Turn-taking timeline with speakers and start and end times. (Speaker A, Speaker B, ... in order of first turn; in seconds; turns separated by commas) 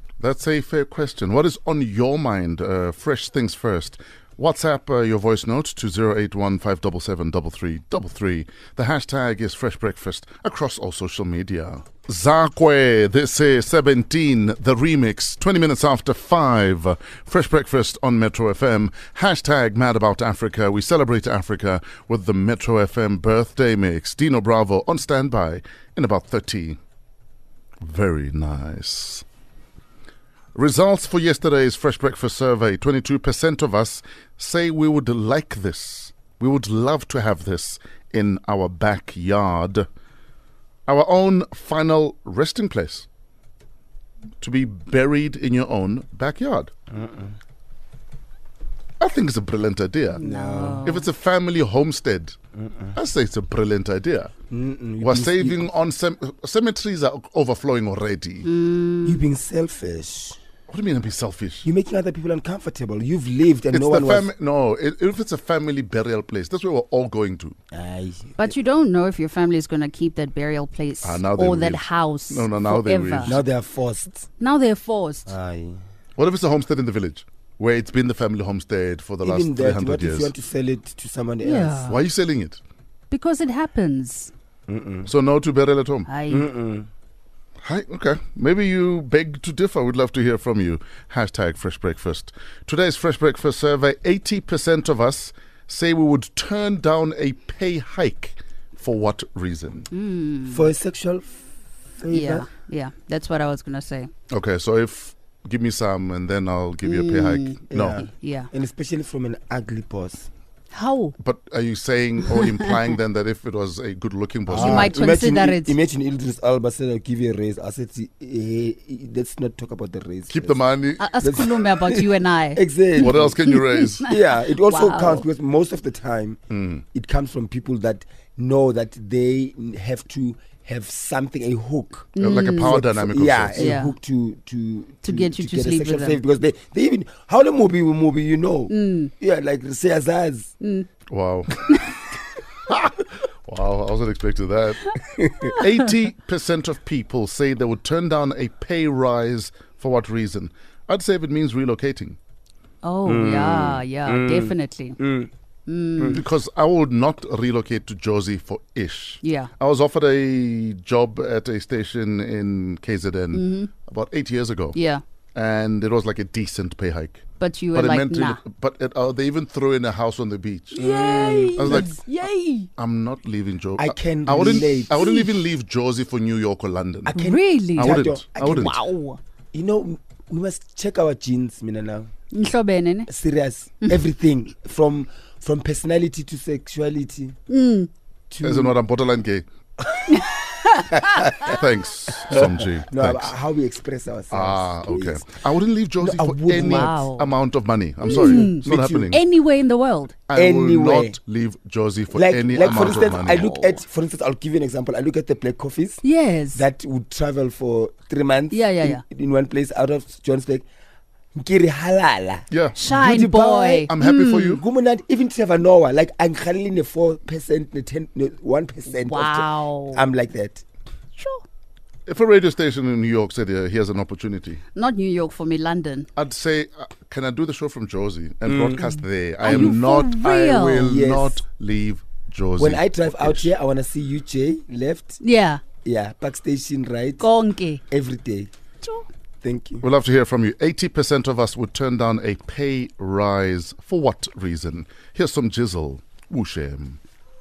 Speaker A: 0.2-26.8, Speaker A: 27.8-29.2, Speaker A: 30.5-39.9, Speaker A: 40.9-43.0, Speaker A: 44.4-46.7, Speaker B: 46.9-47.3, Speaker A: 49.0-50.3, Speaker C: 50.1-51.1, Speaker B: 50.2-50.9, Speaker A: 50.8-52.4, Speaker A: 52.9-54.3, Speaker B: 54.5-55.7, Speaker A: 55.0-58.5, Speaker C: 58.4-59.2, Speaker B: 59.0-60.4, Speaker A: 60.7-61.7, Speaker B: 61.6-64.3, Speaker A: 63.7-67.5, Speaker B: 67.7-68.5, Speaker C: 68.4-73.3, Speaker A: 71.0-73.4, Speaker B: 73.2-74.3, Speaker C: 74.4-75.3, Speaker B: 75.2-75.8, Speaker A: 76.2-80.3, Speaker B: 79.2-82.0, Speaker C: 81.4-82.0, Speaker A: 81.8-82.6, Speaker C: 83.1-84.3, Speaker B: 84.7-85.1, Speaker A: 85.0-86.1, Speaker C: 86.0-86.5, Speaker B: 86.3-86.9, Speaker A: 87.6-99.9, Speaker C: 99.9-100.7, Speaker B: 100.5-101.5, Speaker B: 102.0-102.5, Speaker C: 102.1-104.1, Speaker A: 104.3-108.0, Speaker C: 106.8-108.5, Speaker B: 107.7-110.3, Speaker C: 110.7-111.2, Speaker A: 111.2-115.0, Speaker B: 114.5-120.6, Speaker C: 114.5-115.8, Speaker A: 120.3-121.2, Speaker C: 121.0-125.2, Speaker B: 121.2-123.4, Speaker A: 123.0-124.1, Speaker B: 124.0-126.4, Speaker A: 126.5-126.8, Speaker B: 126.9-140.5, Speaker C: 132.2-132.7, Speaker A: 132.2-133.8, Speaker C: 133.5-133.9, Speaker C: 135.0-136.2, Speaker C: 138.7-139.1, Speaker C: 140.6-140.9, Speaker A: 141.1-141.9, Speaker A: 142.7-152.2, Speaker B: 145.1-145.5, Speaker C: 152.8-155.0, Speaker B: 153.0-155.3, Speaker C: 155.7-156.2, Speaker B: 155.9-156.2, Speaker A: 156.1-164.8, Speaker C: 159.2-159.5, Speaker C: 163.3-163.7, Speaker C: 164.7-165.0, Speaker A: 165.3-170.9, Speaker C: 167.4-168.4, Speaker D: 170.7-172.7, Speaker B: 170.8-171.9, Speaker A: 171.6-171.9, Speaker C: 171.6-172.0, Speaker A: 172.8-177.2, Speaker B: 173.8-175.1, Speaker C: 174.9-175.3, Speaker B: 177.0-178.7, Speaker C: 177.1-179.2, Speaker A: 177.7-178.8, Speaker B: 179.5-182.1, Speaker C: 182.3-183.1, Speaker B: 183.1-187.3, Speaker C: 187.5-187.9, Speaker B: 188.3-188.7, Speaker A: 188.4-189.5, Speaker B: 189.9-190.2, Speaker C: 190.1-191.4, Speaker B: 190.9-195.3, Speaker A: 191.4-193.3, Speaker A: 194.3-199.2, Speaker B: 196.0-197.1, Speaker C: 196.5-197.3, Speaker B: 198.0-199.2, Speaker C: 198.1-200.2, Speaker A: 200.3-203.5, Speaker B: 200.3-201.2, Speaker B: 202.1-210.7, Speaker C: 202.6-203.8, Speaker C: 206.0-206.6, Speaker C: 208.5-209.0, Speaker B: 211.3-213.9, Speaker A: 212.5-212.8, Speaker C: 212.7-214.6, Speaker A: 213.9-214.6, Speaker B: 214.4-220.6, Speaker C: 218.9-220.0, Speaker C: 221.2-221.4, Speaker A: 222.1-224.6, Speaker C: 224.7-226.1, Speaker A: 226.2-233.5, Speaker B: 228.4-229.8, Speaker C: 229.4-230.9, Speaker B: 230.8-231.4, Speaker B: 232.6-235.2, Speaker C: 235.2-235.6, Speaker B: 235.8-237.3, Speaker C: 237.2-237.8, Speaker B: 237.9-238.5, Speaker B: 239.4-239.8, Speaker A: 239.8-247.0